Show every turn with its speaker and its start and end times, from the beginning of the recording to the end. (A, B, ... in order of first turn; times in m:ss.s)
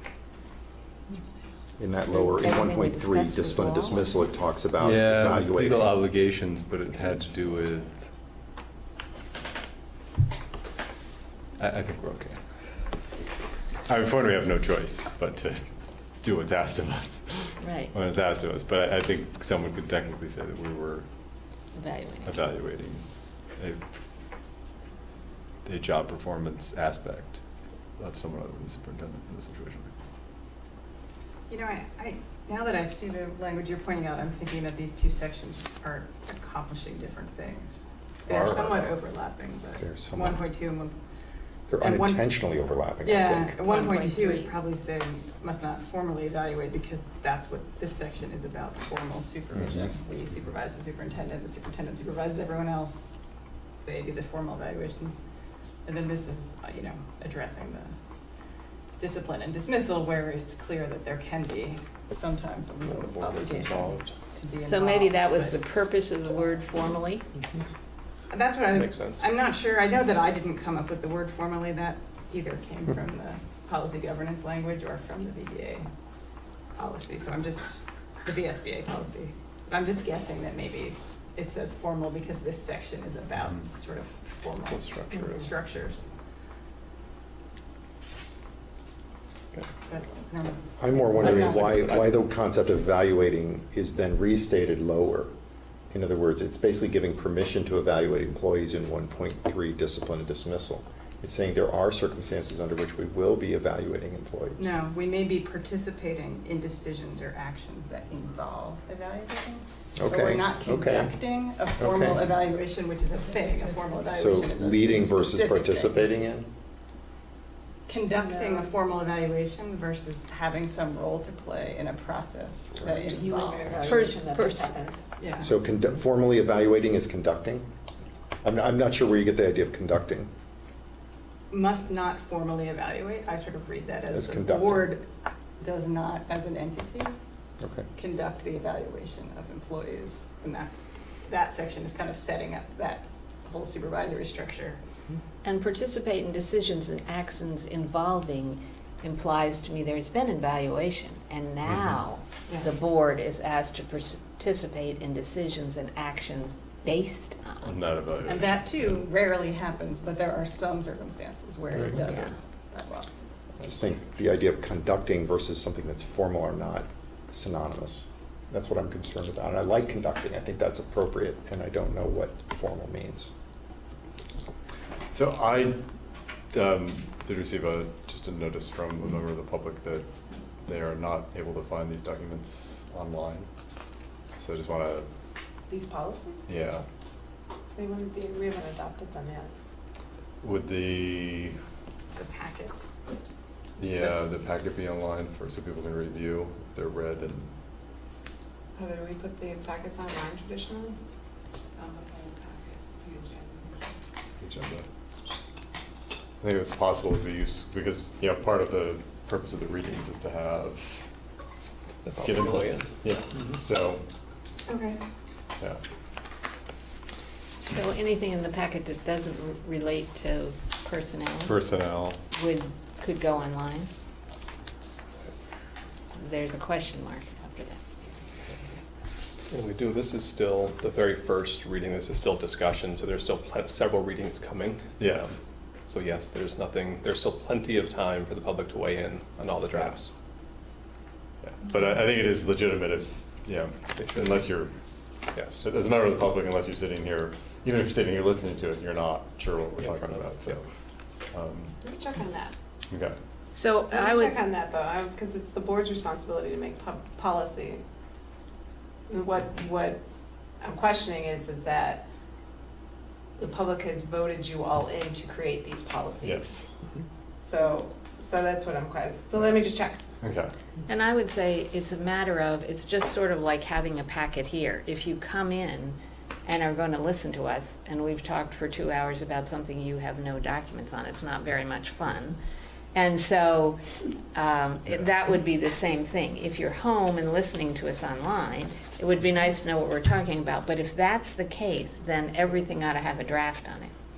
0:01.8-0:05.9 A
0:02.1-0:04.2 B
0:04.8-0:08.0 C
0:11.6-0:12.4 C
0:13.8-0:15.6 C
0:16.2-0:21.0 C
0:17.6-0:17.9 B
0:21.7-0:22.4 B
0:22.2-0:23.0 C
0:23.6-0:23.8 C
0:25.6-0:27.4 C
0:28.0-0:29.9 C
0:31.5-0:40.9 D
0:38.3-0:38.9 C
0:39.8-0:40.4 A
0:41.7-0:43.6 A
0:41.8-0:42.4 D
0:43.0-0:53.1 D
0:43.6-0:44.5 B
0:53.8-0:55.2 D
0:55.8-0:57.9 D
0:59.0-1:05.6 D
1:03.0-1:04.1 E
1:04.6-1:07.2 B
1:08.3-1:15.9 D
1:08.7-1:09.3 E
1:16.8-1:26.0 D
1:24.7-1:25.4 E
1:29.8-1:31.7 D
1:30.8-1:35.3 A
1:31.3-1:32.1 E
1:35.9-1:44.7 A
1:44.6-1:56.0 D
1:50.0-1:51.2 A
1:51.8-1:52.3 A
1:54.0-1:56.5 A
1:57.9-2:04.0 D
1:58.2-1:58.6 F
2:03.1-2:05.0 F
2:03.8-2:04.8 B
2:05.2-2:05.5 D
2:05.4-2:07.6 A
2:08.4-2:10.3 A
2:11.5-2:15.1 D
2:14.1-2:14.9 A
2:15.6-2:17.2 D
2:17.6-2:17.8 A
2:18.0-2:24.8 D
2:25.4-2:37.7 B
2:37.6-2:39.0 C
2:38.2-2:43.1 D
2:43.6-2:53.3 A
2:55.1-2:55.8 C
2:56.5-3:00.0 C
3:00.6-3:03.5 C
3:04.4-3:05.1 C
3:05.7-3:06.4 F
3:06.5-3:06.8 C
3:07.8-3:09.5 F
3:10.4-3:11.6 C
3:12.2-3:12.7 F
3:13.8-3:17.5 C
3:18.8-3:21.0 F
3:21.8-3:23.8 F
3:24.4-3:24.8 C
3:26.4-3:31.0 C
3:32.0-3:32.9 E
3:32.2-3:34.0 C
3:34.7-3:35.0 F
3:37.6-3:41.6 B
3:41.4-3:42.2 C
3:42.3-3:43.9 B
3:46.1-3:48.0 B
3:49.5-3:55.4 E
3:55.0-3:55.3 C
3:55.9-4:00.1 E
4:01.4-4:04.7 C
4:04.0-4:04.5 E
4:05.3-4:05.6 E
4:05.6-4:10.6 C
4:09.7-4:10.6 E
4:11.3-4:11.8 C
4:11.8-4:12.5 F
4:12.9-4:13.2 C
4:13.5-4:14.4 B
4:13.9-4:17.8 F
4:19.1-4:20.0 F
4:20.6-4:22.0 F
4:23.4-4:26.6 F
4:26.2-4:26.7 C
4:27.4-4:30.0 F
4:30.2-4:30.5 C
4:30.9-4:42.4 B
4:42.9-4:43.8 B
4:44.3-4:53.9 B